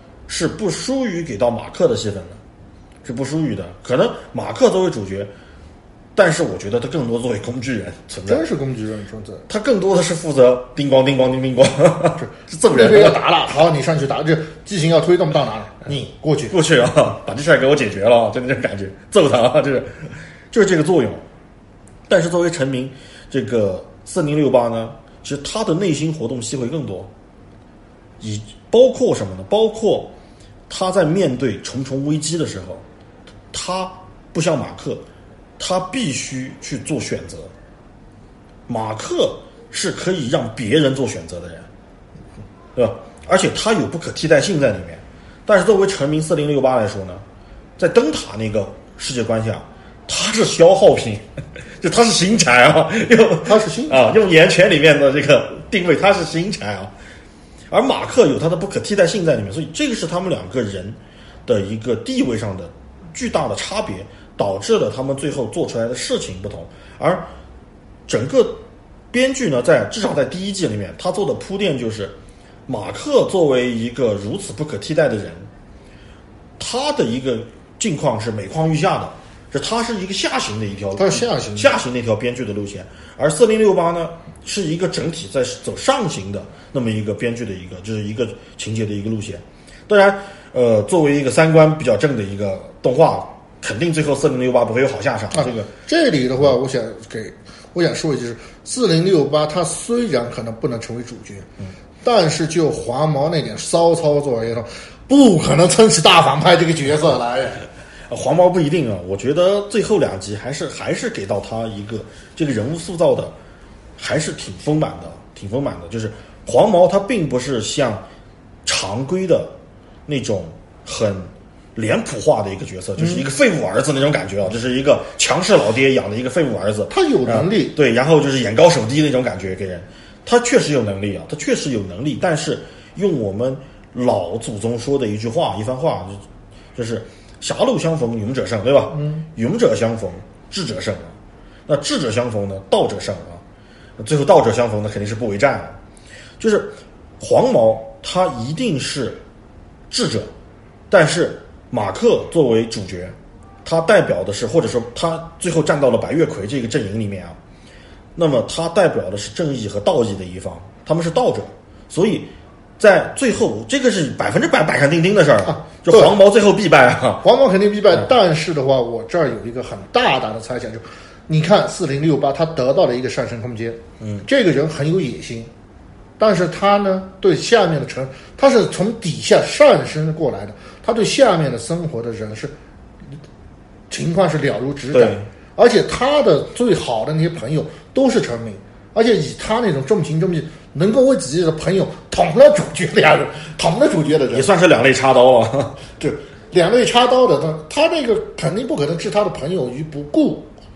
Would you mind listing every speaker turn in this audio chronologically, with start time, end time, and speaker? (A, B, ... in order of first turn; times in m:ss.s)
0:00.3-0:02.4 A
0:03.0-0:05.3 A
0:06.1-0:08.4 A
0:08.3-0:09.4 B
0:09.5-0:13.2 A
0:12.2-0:16.6 B
0:16.5-0:21.2 A
0:22.1-0:27.1 A
0:28.2-0:30.1 A
0:30.7-0:32.8 A
0:33.5-0:35.0 A
0:35.6-0:37.5 A
0:38.7-0:41.7 A
0:42.8-0:47.2 A
0:47.8-0:51.2 A
0:51.8-0:56.9 A
0:53.4-0:54.1 B
0:57.7-1:07.3 A
1:08.1-1:08.6 A
1:09.1-1:12.1 A
1:12.7-1:15.5 A
1:16.6-1:35.7 A
1:21.0-1:21.8 B
1:35.3-1:41.5 B
1:42.0-1:47.6 B
1:48.1-1:53.3 A
1:54.0-1:58.0 A
1:58.6-1:59.5 A
2:00.1-2:16.2 A
2:06.9-2:07.7 B
2:16.8-2:21.2 A
2:18.9-2:19.2 B
2:21.7-2:23.4 A
2:24.0-2:25.8 A
2:26.4-2:29.2 A
2:29.9-2:30.3 A
2:30.9-2:37.4 A
2:38.1-2:47.2 A
2:45.4-2:46.2 B
2:47.2-2:55.5 B
2:54.0-2:54.2 A
2:56.2-3:02.5 B
3:03.9-3:14.5 B
3:04.9-3:05.2 A
3:14.3-3:15.8 A
3:16.0-3:20.5 B